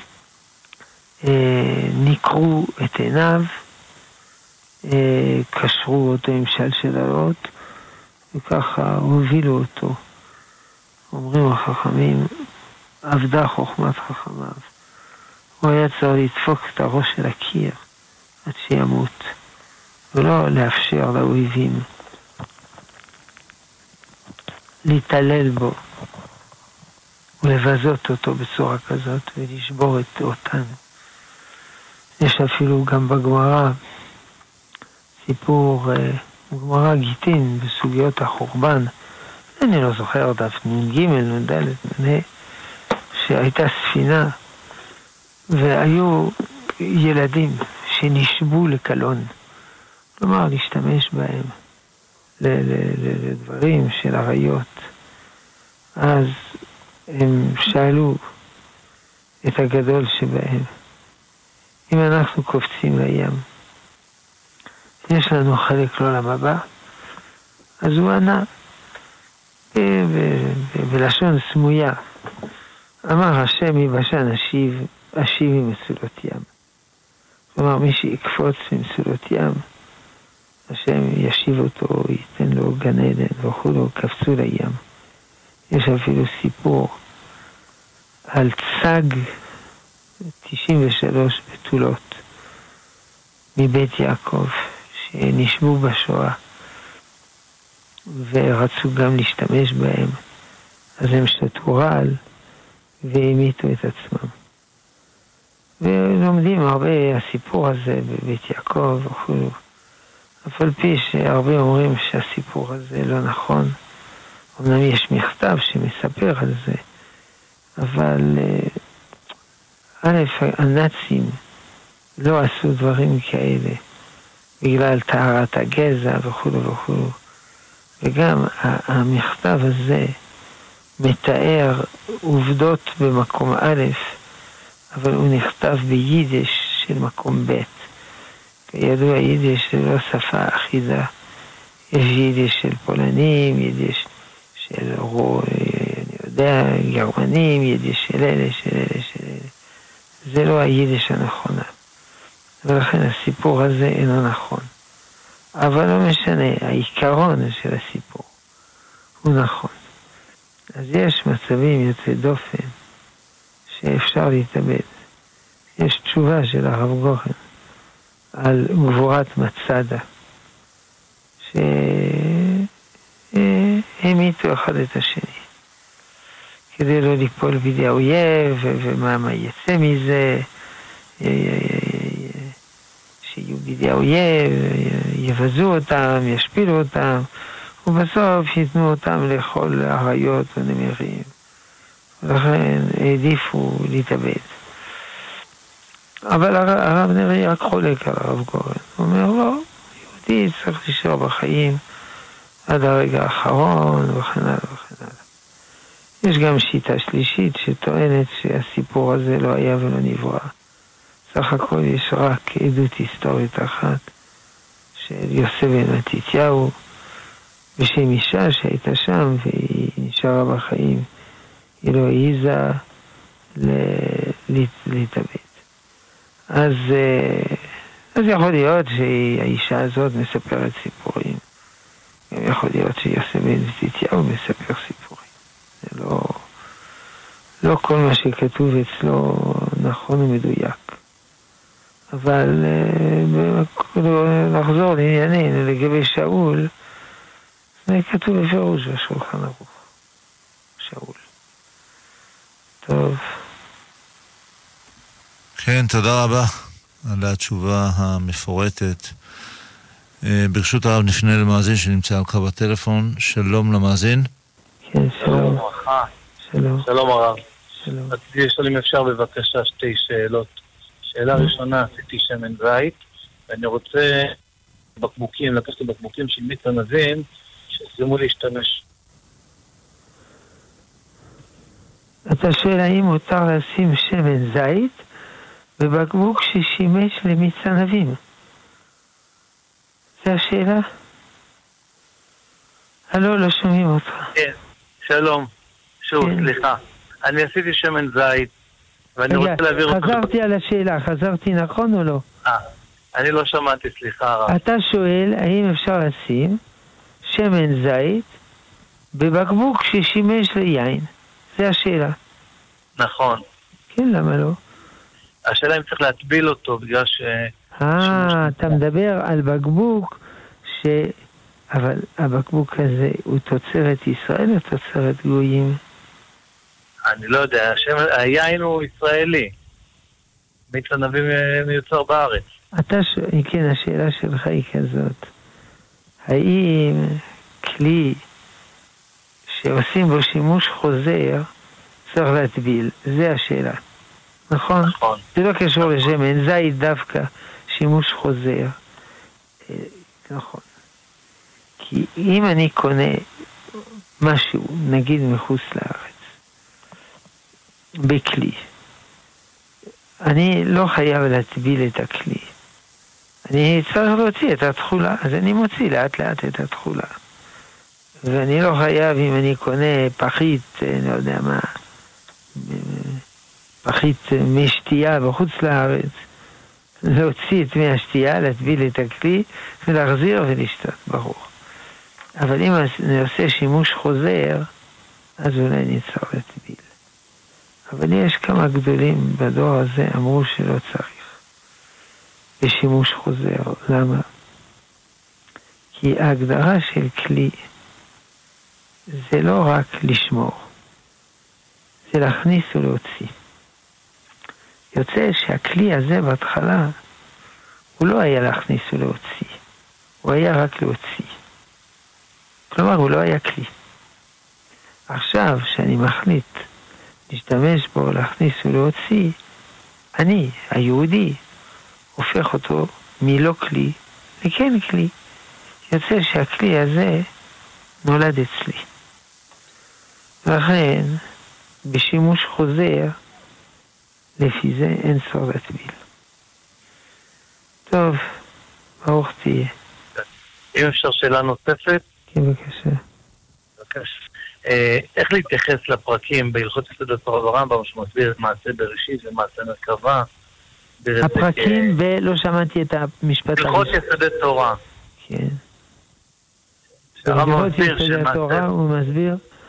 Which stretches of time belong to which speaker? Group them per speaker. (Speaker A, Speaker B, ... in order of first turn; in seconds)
Speaker A: 1.2-3.5, 4.8-7.4, 8.3-10.0, 11.1-12.3, 13.0-14.7, 15.6-17.8, 18.4-19.3, 20.1-21.9, 24.8-25.8, 27.4-30.8, 32.2-33.8, 35.2-38.9, 39.6-42.2, 43.1-44.3, 45.5-49.3, 50.2-51.5, 52.4-54.9, 56.0-56.4, 57.1-58.2, 59.4-60.7, 61.9-63.4, 65.0-66.7, 67.8-68.5, 69.7-72.0, 73.1-76.5, 77.5-79.6, 80.7-84.8, 85.7-87.0, 88.3-89.3, 90.4-92.2, 93.5-96.4, 98.1-100.2, 101.0-102.2, 103.0-104.3, 105.8-109.5, 110.4-113.8, 114.6-116.8, 117.8-118.8, 120.0-121.4, 122.2-123.8, 124.6-127.1, 128.0-130.2, 131.0-134.1, 134.9-137.8, 138.7-141.1, 141.9-144.1, 144.6-149.5, 150.3-151.7, 152.6-154.7, 155.6-158.3, 159.2-159.8, 160.7-162.7, 163.7-164.9, 165.8-167.4, 168.3-170.0, 171.4-172.7, 173.3-175.4, 176.7-180.5, 181.2-182.5, 183.2-187.3, 187.8-191.3, 192.2-194.5, 196.3-199.6, 200.2-201.8, 202.7-205.2, 206.2-210.5, 211.3-214.0, 215.0-216.7, 217.8-221.1, 221.8-222.8, 223.6-225.5, 226.5-231.4, 232.3-235.2, 235.8-236.4, 237.6-241.0, 242.1-246.7, 247.8-249.7, 250.8-251.2, 252.8-253.2, 264.9-265.6, 266.5-266.9, 267.8-268.1, 282.3-285.0, 285.8-288.2, 290.2-290.8, 293.1-294.3, 296.2-296.5, 299.3-302.2, 304.5-306.6, 307.3-308.3, 309.1-312.1, 313.9-314.5, 317.8-321.1, 321.7-325.8, 332.8-335.3, 336.2-338.2, 339.5-341.5, 342.1-343.8, 344.5-348.7, 349.7-350.6, 351.8-353.2, 354.2-356.2, 358.0-358.6, 360.2-362.5, 363.5-367.1, 368.2-371.7, 372.5-373.2, 373.8-376.2, 377.0-381.5, 382.4-384.7, 385.4-386.9, 387.9-391.4, 392.6-394.2, 395.9-397.6, 399.1-400.7, 402.1-403.3, 404.9-406.9, 408.0-409.6, 410.2-411.3, 412.7-413.7, 415.1-416.6, 417.3-419.3, 420.1-421.4, 422.1-425.1, 425.9-427.3, 428.0-428.9, 430.4-431.2, 431.8-433.1, 434.4-436.0, 437.9-438.3, 439.0-439.7, 442.3-443.0, 451.2-453.9, 455.2-455.6, 457.2-459.4
Speaker B: 255.6-256.5, 257.0-259.1, 260.2-264.3
Speaker C: 265.2-266.1, 266.8-267.4, 268.1-270.5, 271.1-274.4, 275.0-277.2, 277.8-278.8, 294.4-295.5, 296.0-298.5, 299.2-300.3, 303.2-304.5, 313.0-313.4, 315.5-318.8, 327.1-329.5, 330.7-332.4, 344.9-345.2, 440.2-442.0, 443.8-444.1, 444.6-450.2, 451.0-451.9, 453.6-454.8, 457.2-458.6